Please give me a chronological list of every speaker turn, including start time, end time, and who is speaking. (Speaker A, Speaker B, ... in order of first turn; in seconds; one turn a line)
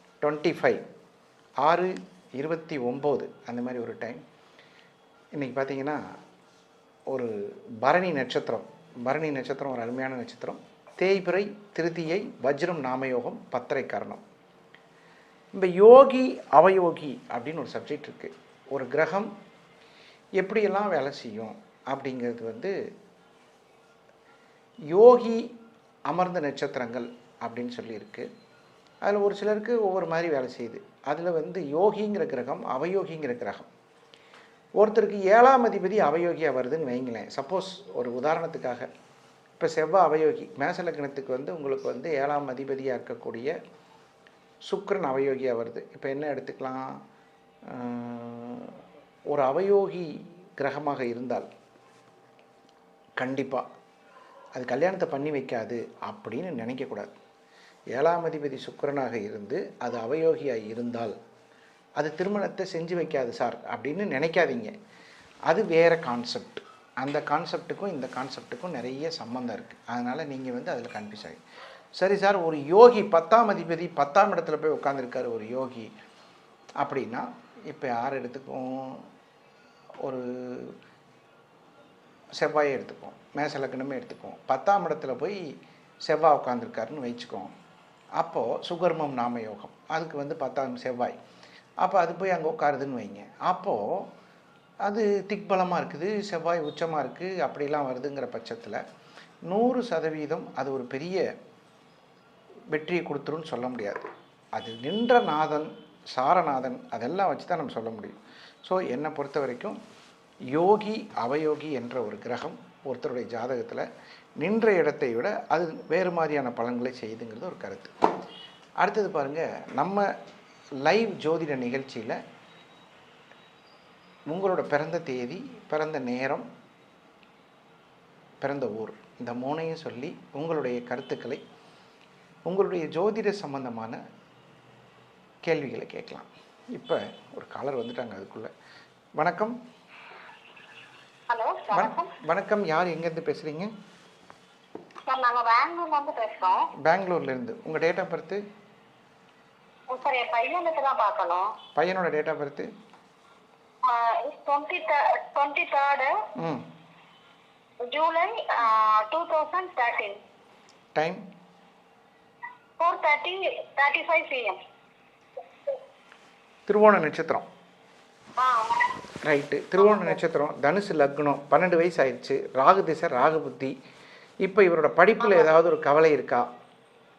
Speaker A: 0.2-0.8
Speaker A: 1.6-4.2
Speaker A: 5.3-6.0
Speaker A: 7.1-14.2
Speaker A: 15.5-19.3
Speaker A: 20.4-22.7
Speaker A: 24.9-25.5
Speaker A: 26.1-28.3
Speaker A: 29.0-33.7
Speaker A: 34.8-38.9
Speaker A: 39.6-43.5
Speaker A: 44.7-47.0
Speaker A: 47.7-51.5
Speaker A: 53.2-53.6
Speaker A: 54.5-57.1
Speaker A: 57.9-61.1
Speaker A: 62.0-64.7
Speaker A: 65.5-71.4
Speaker A: 72.0-75.9
Speaker A: 76.8-79.0
Speaker A: 80.0-80.7
Speaker A: 82.4-85.4
Speaker A: 86.0-87.5
Speaker A: 88.2-91.2
Speaker A: 91.8-94.1
Speaker A: 94.8-98.8
Speaker A: 99.5-101.2
Speaker A: 102.7-109.8
Speaker A: 110.5-113.8
Speaker A: 114.4-117.9
Speaker A: 118.8-120.0
Speaker A: 120.8-122.2
Speaker A: 124.3-126.5
Speaker A: 128.4-131.4
Speaker A: 132.5-134.0
Speaker A: 135.4-138.5
Speaker A: 139.2-139.6
Speaker B: 141.3-142.1
Speaker A: 141.7-143.7
Speaker B: 145.1-146.6
Speaker A: 146.8-148.4
Speaker B: 149.9-151.5
Speaker A: 151.8-152.7
Speaker B: 153.8-156.1
Speaker A: 156.4-156.6
Speaker B: 157.9-160.2
Speaker A: 160.9-161.2
Speaker B: 162.8-164.6
Speaker A: 166.7-167.4
Speaker B: 168.4-168.8
Speaker A: 169.2-173.7
Speaker B: 169.8-170.1
Speaker A: 174.4-176.4